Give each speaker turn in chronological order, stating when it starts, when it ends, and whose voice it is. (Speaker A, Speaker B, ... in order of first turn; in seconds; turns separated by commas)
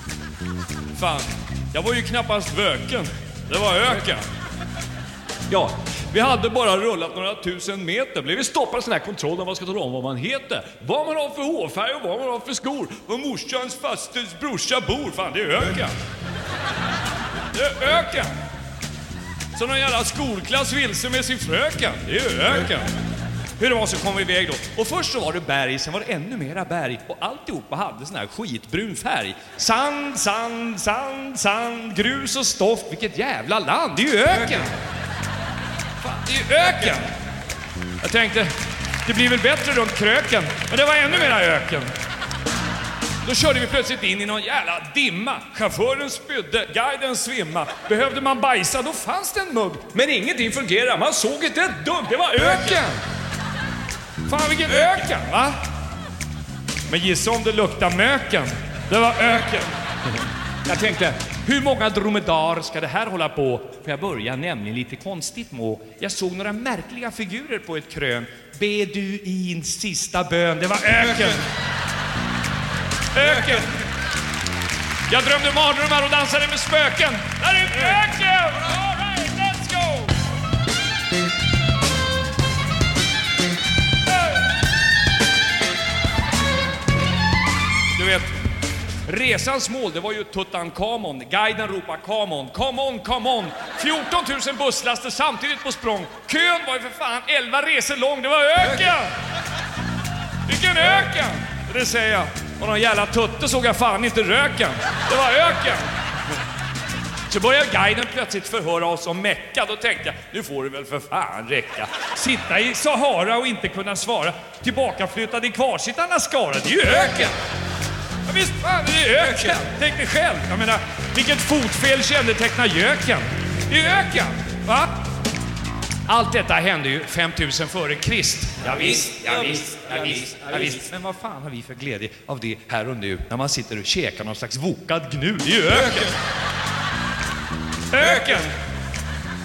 Speaker A: 0.9-4.2, Speaker A: 5.5-15.9, Speaker A: 17.5-18.3, Speaker A: 19.5-22.9, Speaker A: 23.6-34.7, Speaker A: 36.0-37.1, Speaker A: 38.0-41.9, Speaker A: 43.2-53.0, Speaker A: 54.2-55.6, Speaker A: 56.9-71.4, Speaker A: 73.1-73.8, Speaker A: 75.1-80.1, Speaker A: 87.9-88.3, Speaker A: 89.0-99.1, Speaker A: 100.5-105.8, Speaker A: 107.3-117.3, Speaker A: 118.2-125.0, Speaker A: 126.1-136.2, Speaker A: 137.9-138.5